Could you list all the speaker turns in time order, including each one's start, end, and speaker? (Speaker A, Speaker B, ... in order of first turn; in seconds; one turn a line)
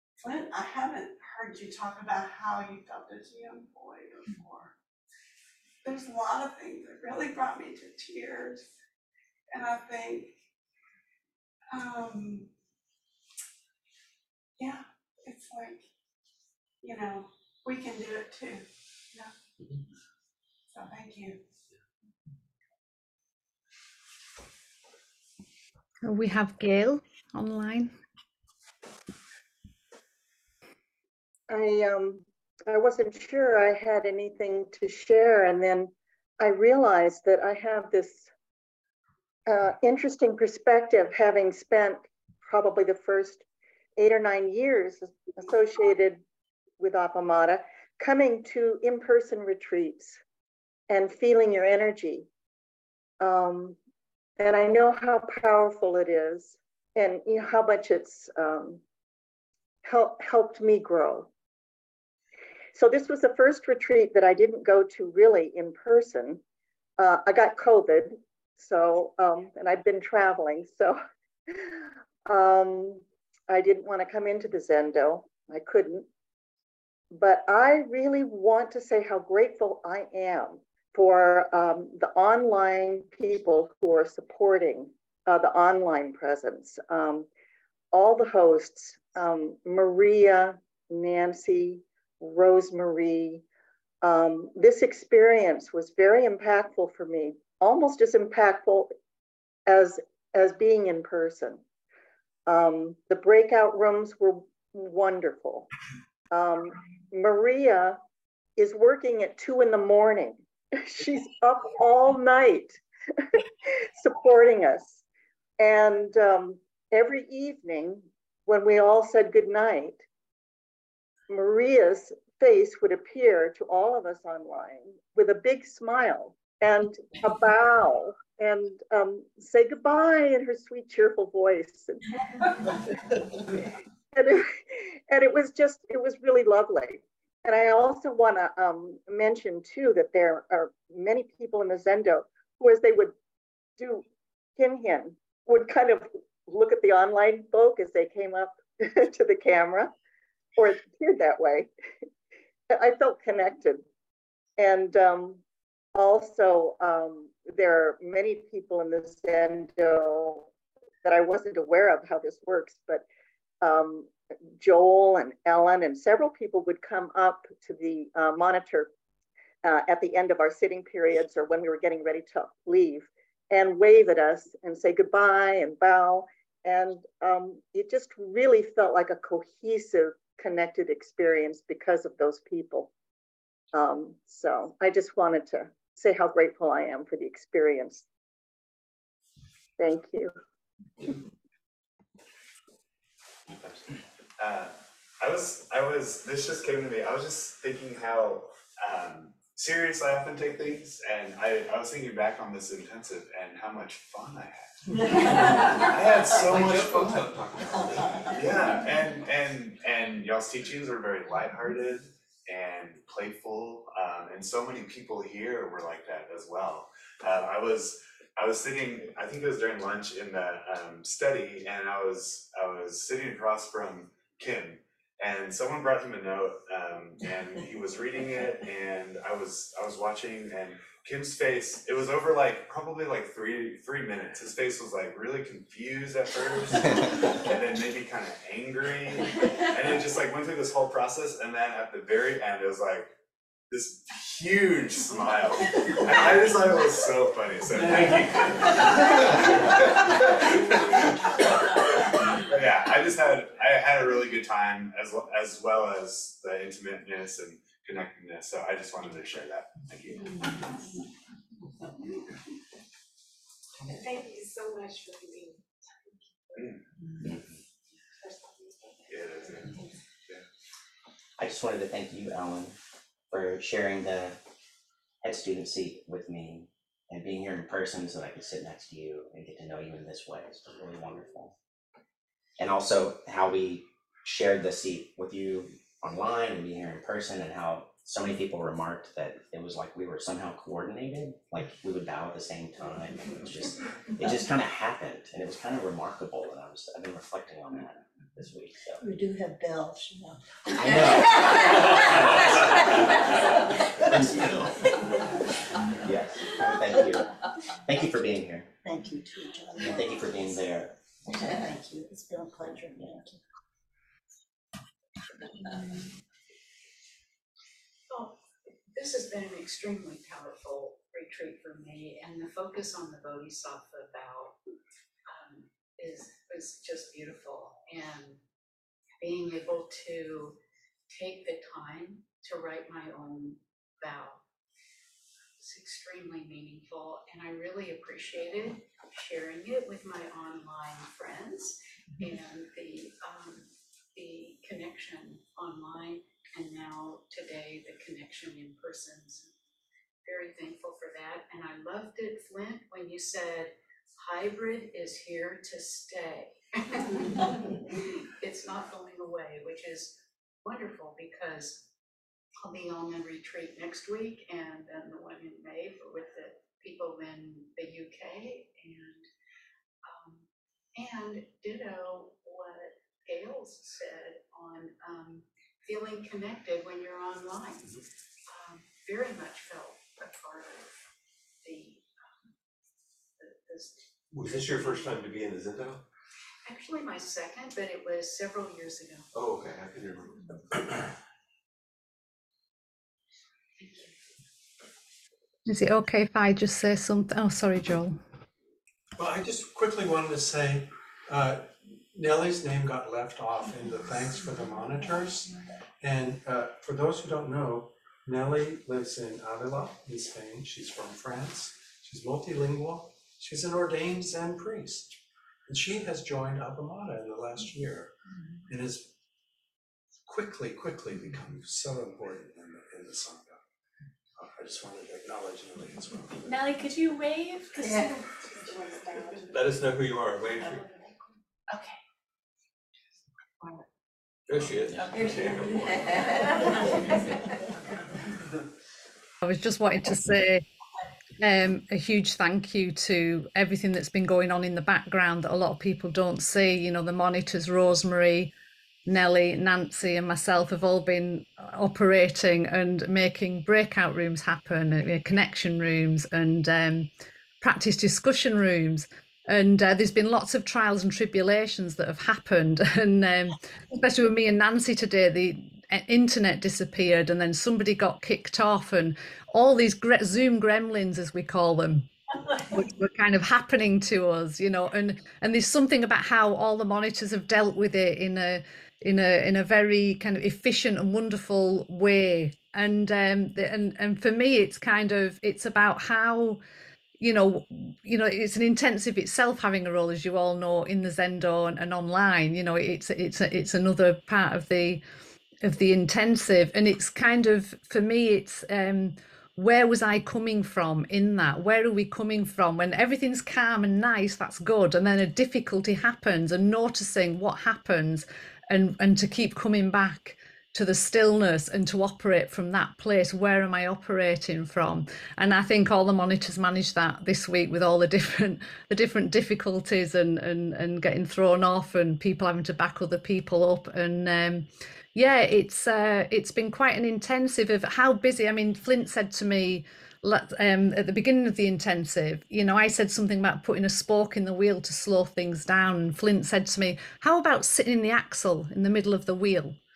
Speaker A: 0.2-4.7
Speaker A: 5.8-8.6
Speaker A: 9.5-10.3
Speaker A: 11.7-12.5
Speaker A: 14.6-15.8
Speaker A: 16.8-19.3
Speaker A: 20.7-21.4
Speaker B: 26.0-27.9
Speaker C: 31.5-38.3
Speaker C: 39.5-43.4
Speaker C: 44.0-46.2
Speaker C: 46.8-50.2
Speaker C: 50.9-52.2
Speaker C: 53.2-53.8
Speaker C: 54.4-58.8
Speaker C: 59.8-61.3
Speaker C: 62.7-66.4
Speaker C: 67.0-71.0
Speaker C: 71.5-76.1
Speaker C: 77.1-87.3
Speaker C: 87.9-93.4
Speaker C: 94.0-98.9
Speaker C: 99.7-101.6
Speaker C: 102.5-105.7
Speaker C: 106.3-108.0
Speaker C: 108.6-112.8
Speaker C: 114.0-115.0
Speaker C: 115.6-120.0
Speaker C: 121.3-132.0
Speaker C: 134.1-143.1
Speaker C: 143.8-144.0
Speaker C: 144.6-149.9
Speaker C: 150.6-151.7
Speaker C: 152.7-153.8
Speaker C: 154.6-155.4
Speaker C: 155.9-160.5
Speaker C: 161.0-163.0
Speaker C: 163.6-168.9
Speaker C: 169.6-182.9
Speaker C: 183.7-188.1
Speaker C: 189.8-190.3
Speaker D: 193.5-193.8
Speaker D: 194.4-204.6
Speaker E: 205.1-205.7
Speaker D: 205.7-207.3
Speaker F: 206.3-208.4
Speaker D: 208.3-243.1
Speaker D: 243.7-251.1
Speaker D: 252.4-260.3
Speaker G: 264.0-265.5
Speaker D: 269.1-269.8
Speaker H: 271.4-272.7
Speaker H: 273.3-274.4
Speaker H: 275.2-281.5
Speaker H: 282.6-299.0
Speaker E: 299.0-303.4
Speaker H: 300.8-302.4
Speaker E: 304.1-304.6
Speaker F: 304.1-304.7
Speaker H: 306.0-307.3
Speaker H: 307.9-308.7
Speaker E: 308.8-310.5
Speaker H: 309.8-310.9
Speaker E: 311.3-313.3
Speaker I: 318.1-318.4
Speaker I: 318.9-324.5
Speaker I: 325.3-328.4
Speaker I: 329.2-330.5
Speaker I: 331.1-334.4
Speaker I: 335.6-349.5
Speaker I: 350.2-356.5
Speaker I: 358.4-361.9
Speaker I: 362.6-369.3
Speaker I: 370.0-370.4
Speaker I: 370.9-377.9
Speaker I: 378.5-380.9
Speaker I: 381.6-382.0
Speaker I: 383.4-385.1
Speaker F: 384.3-386.0
Speaker I: 386.6-389.2
Speaker F: 389.3-391.0
Speaker I: 393.8-394.1
Speaker B: 395.6-398.2
Speaker J: 399.2-415.1
Speaker J: 415.7-418.1
Speaker J: 418.7-419.1
Speaker J: 420.3-423.6
Speaker J: 424.4-426.6
Speaker G: 428.7-429.2
Speaker F: 429.5-430.9
Speaker F: 434.5-436.1
Speaker B: 439.4-440.6
Speaker B: 441.4-448.5
Speaker B: 449.1-457.1
Speaker B: 457.6-472.1
Speaker B: 472.6-486.6
Speaker B: 487.2-495.0
Speaker B: 495.6-539.8